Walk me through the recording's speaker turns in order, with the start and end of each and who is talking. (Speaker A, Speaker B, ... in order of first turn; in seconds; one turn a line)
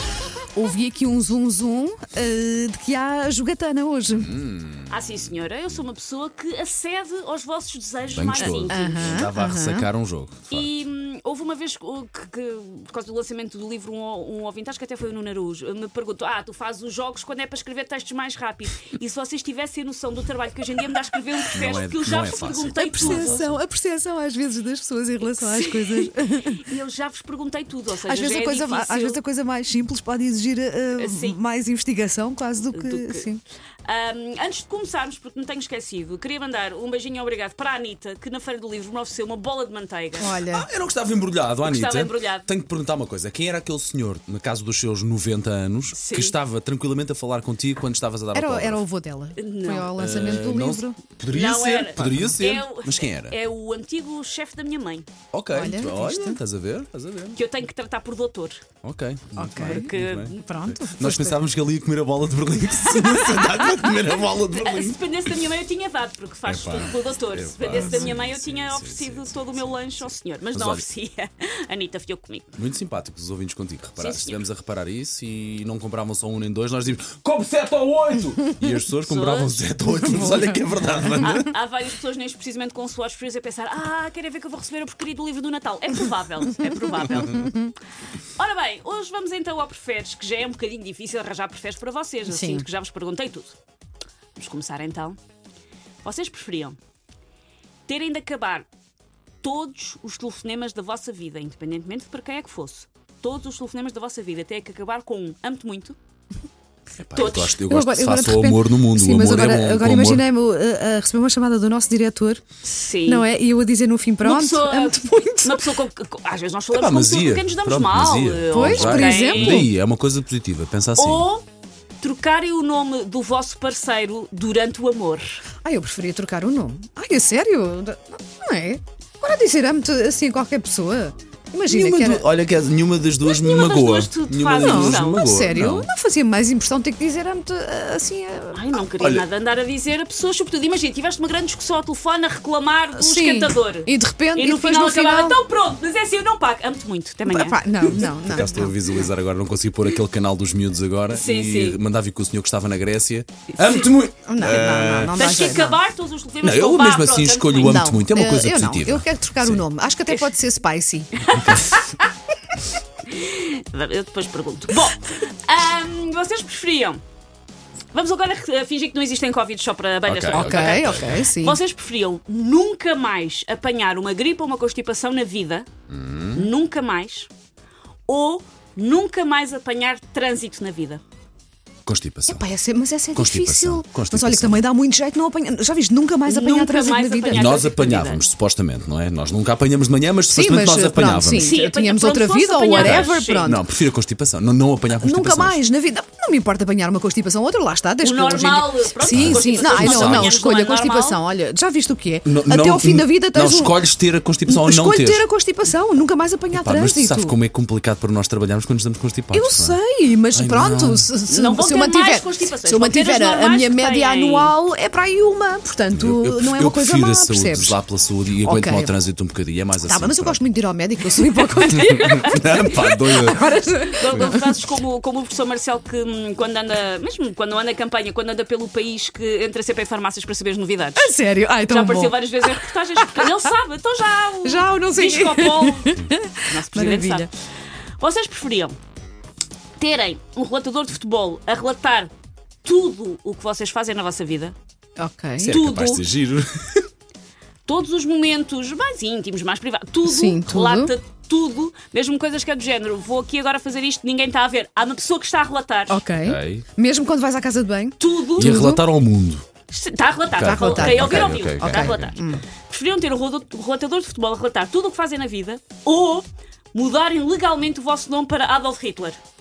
Speaker A: 0.5-4.3
Speaker B: 4.1-5.3
Speaker C: 4.9-9.2
Speaker B: 8.1-10.7
Speaker A: 8.4-9.9
Speaker C: 10.5-23.5
Speaker B: 21.5-23.4
Speaker A: 22.8-26.6
Speaker C: 25.4-29.2
Speaker A: 28.1-33.4
Speaker C: 30.9-31.4
Speaker C: 32.7-33.3
Speaker C: 33.8-40.4
Speaker A: 40.2-40.7
Speaker B: 40.5-48.8
Speaker C: 41.6-42.5
Speaker C: 45.9-46.4
Speaker A: 48.3-51.0
Speaker C: 49.4-50.1
Speaker B: 49.9-53.4
Speaker C: 51.3-55.1
Speaker A: 52.0-52.4
Speaker B: 55.3-57.4
Speaker A: 55.5-56.4
Speaker C: 57.3-58.6
Speaker B: 58.8-65.3
Speaker A: 59.3-61.4
Speaker C: 59.6-60.4
Speaker C: 64.5-72.5
Speaker B: 66.5-70.8
Speaker A: 67.7-68.1
Speaker B: 72.5-81.5
Speaker C: 74.0-74.4
Speaker C: 79.1-79.7
Speaker C: 81.2-87.6
Speaker C: 88.3-93.5
Speaker A: 92.2-92.7
Speaker C: 94.3-95.2
Speaker C: 96.0-96.8
Speaker C: 97.9-98.7
Speaker C: 99.4-106.0
Speaker B: 107.0-110.2
Speaker C: 107.1-107.5
Speaker A: 107.6-112.4
Speaker C: 112.6-113.2
Speaker A: 113.0-115.7
Speaker C: 114.2-119.7
Speaker B: 116.7-121.3
Speaker A: 118.5-119.7
Speaker C: 121.0-121.4
Speaker C: 122.0-125.4
Speaker A: 125.6-132.2
Speaker B: 131.7-135.9
Speaker C: 133.2-135.3
Speaker A: 134.6-138.8
Speaker C: 138.5-148.0
Speaker B: 138.9-139.2
Speaker A: 142.9-145.4
Speaker A: 147.3-148.9
Speaker B: 147.7-155.4
Speaker C: 151.1-151.8
Speaker A: 154.3-155.8
Speaker C: 155.1-157.8
Speaker B: 156.4-159.7
Speaker A: 157.6-161.3
Speaker C: 161.2-162.1
Speaker B: 161.4-161.7
Speaker C: 163.1-167.0
Speaker C: 167.9-175.7
Speaker B: 170.1-171.3
Speaker A: 170.3-171.6
Speaker B: 175.9-176.5
Speaker C: 176.3-177.3
Speaker C: 178.1-181.0
Speaker B: 181.8-182.4
Speaker A: 182.3-187.6
Speaker B: 183.1-184.6
Speaker C: 186.3-188.2
Speaker B: 187.3-191.6
Speaker A: 190.3-193.6
Speaker C: 191.3-193.5
Speaker B: 192.7-195.6
Speaker A: 194.9-203.8
Speaker C: 198.0-201.2
Speaker B: 199.1-200.3
Speaker B: 202.2-205.2
Speaker A: 204.4-207.3
Speaker B: 206.5-209.8
Speaker A: 209.3-217.8
Speaker B: 210.3-211.1
Speaker C: 211.3-214.5
Speaker B: 215.9-220.4
Speaker A: 218.4-218.9
Speaker A: 219.8-224.6
Speaker C: 221.5-222.7
Speaker B: 221.7-223.5
Speaker C: 223.8-231.1
Speaker A: 231.0-233.3
Speaker C: 231.7-237.3
Speaker A: 234.4-237.3
Speaker C: 238.0-238.8
Speaker C: 239.8-242.1
Speaker C: 242.6-244.5
Speaker A: 245.0-245.5
Speaker B: 245.4-246.9
Speaker C: 245.4-246.0
Speaker C: 247.7-256.0
Speaker A: 250.0-250.9
Speaker A: 255.9-258.8
Speaker B: 256.2-256.6
Speaker C: 258.0-258.7
Speaker B: 258.4-259.4
Speaker C: 259.7-269.2
Speaker B: 260.3-262.1
Speaker A: 260.4-262.4